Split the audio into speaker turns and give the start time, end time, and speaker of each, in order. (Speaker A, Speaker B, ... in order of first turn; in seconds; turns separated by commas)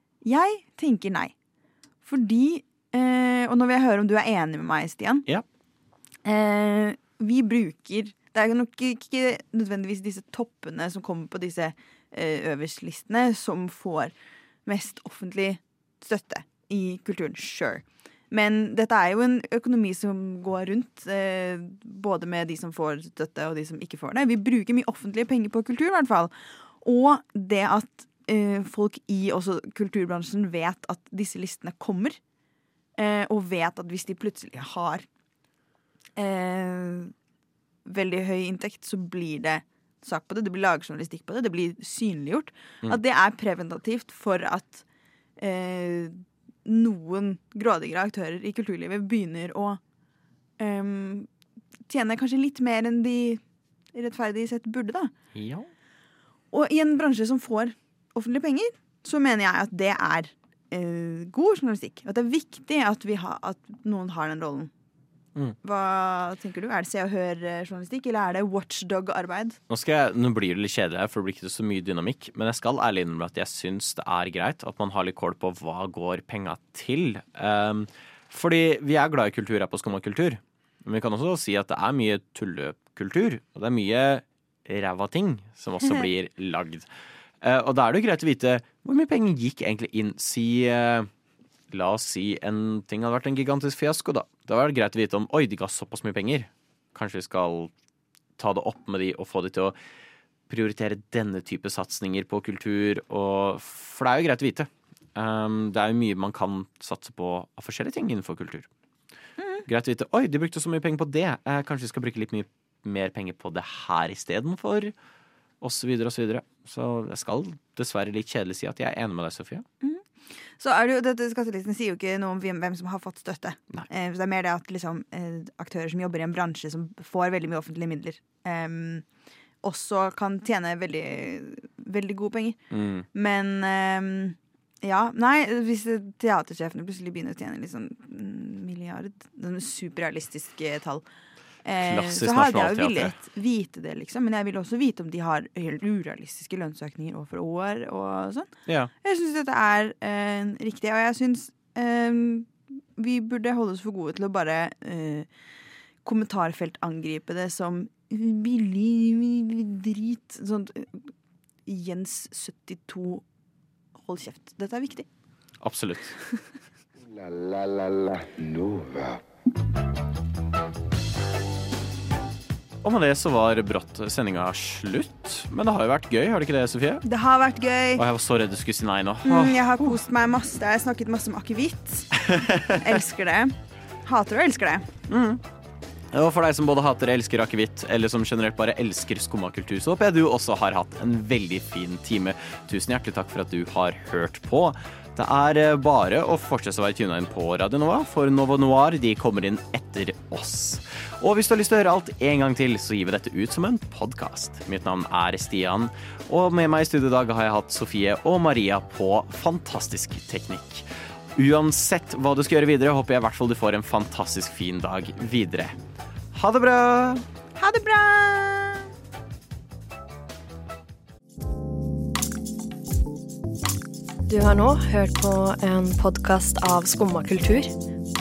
Speaker A: 0.2-1.3, Speaker A: 2.0-5.3, Speaker A: 6.2-14.1, Speaker A: 14.7-32.2, Speaker A: 33.0-35.1, Speaker A: 36.2-37.1, Speaker A: 37.9-44.8, Speaker A: 45.4-49.8, Speaker A: 50.6-51.3, Speaker A: 51.9-53.4, Speaker A: 53.9-55.1, Speaker B: 55.4-55.7, Speaker A: 56.5-64.7, Speaker A: 65.6-69.6, Speaker B: 69.7-86.9, Speaker B: 87.4-91.1, Speaker B: 91.7-97.7, Speaker B: 98.4-99.8, Speaker B: 100.5-108.7, Speaker A: 109.4-109.7, Speaker B: 109.7-114.9, Speaker B: 115.6-119.7, Speaker A: 119.8-120.1, Speaker A: 120.6-129.1, Speaker A: 129.6-132.6, Speaker B: 132.7-133.1, Speaker A: 133.1-141.0, Speaker A: 141.6-148.5, Speaker B: 141.8-143.1, Speaker A: 149.0-155.3, Speaker A: 156.1-161.1, Speaker A: 161.7-163.2, Speaker A: 164.0-165.1, Speaker B: 165.6-166.2, Speaker C: 167.0-169.2, Speaker B: 172.8-177.1, Speaker A: 177.1-178.0, Speaker B: 178.0-180.0, Speaker A: 179.2-184.9, Speaker B: 182.2-182.7, Speaker B: 185.1-185.4, Speaker B: 186.1-215.8, Speaker B: 216.3-217.2, Speaker A: 217.6-218.9, Speaker D: 224.3-227.7